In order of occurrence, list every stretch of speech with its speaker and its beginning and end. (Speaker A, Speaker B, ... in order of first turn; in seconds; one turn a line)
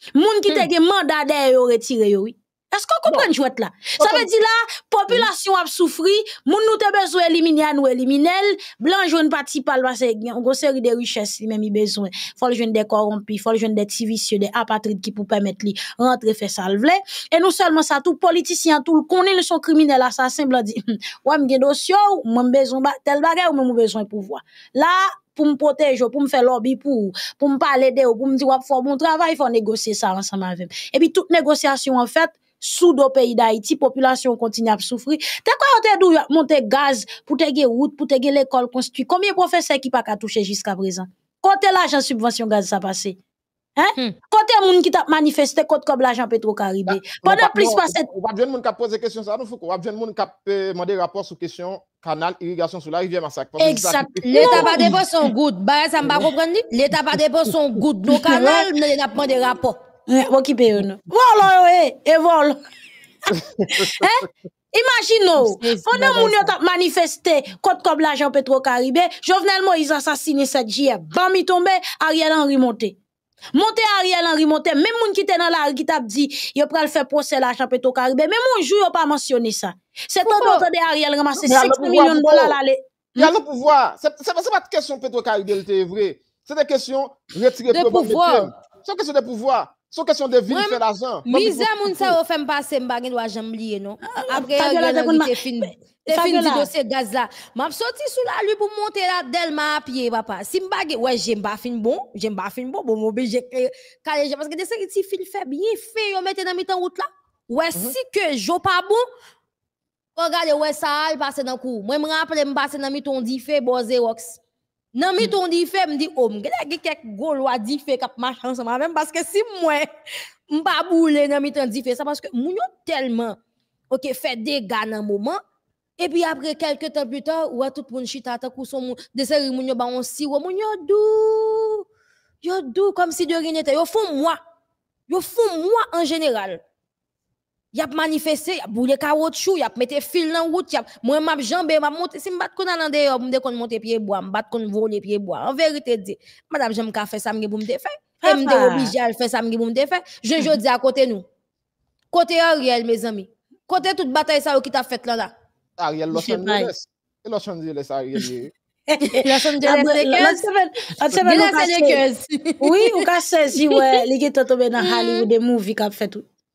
Speaker A: 0.1-43.2
Speaker B: 4.0-4.3
Speaker A: 43.8-48.1
Speaker B: 46.9-55.0
Speaker A: 53.6-55.0
Speaker C: 54.2-59.8
Speaker A: 58.1-58.7
Speaker A: 60.1-62.6
Speaker B: 63.3-64.1
Speaker A: 63.7-73.0
Speaker C: 65.4-66.5
Speaker A: 73.5-83.3
Speaker C: 80.3-80.6
Speaker B: 81.4-82.6
Speaker B: 83.2-92.2
Speaker C: 87.7-88.5
Speaker C: 90.5-109.0
Speaker A: 94.1-96.7
Speaker C: 110.2-114.4
Speaker C: 115.0-119.9
Speaker C: 120.5-123.4
Speaker C: 123.9-125.4
Speaker C: 126.0-131.8
Speaker C: 132.4-134.4
Speaker C: 135.1-136.6
Speaker C: 137.7-151.2
Speaker A: 148.2-148.9
Speaker C: 152.1-155.3
Speaker B: 155.8-158.5
Speaker A: 156.1-156.7
Speaker A: 158.9-162.0
Speaker C: 159.0-160.4
Speaker C: 161.2-163.0
Speaker A: 162.6-166.2
Speaker C: 163.6-163.9
Speaker C: 164.8-165.3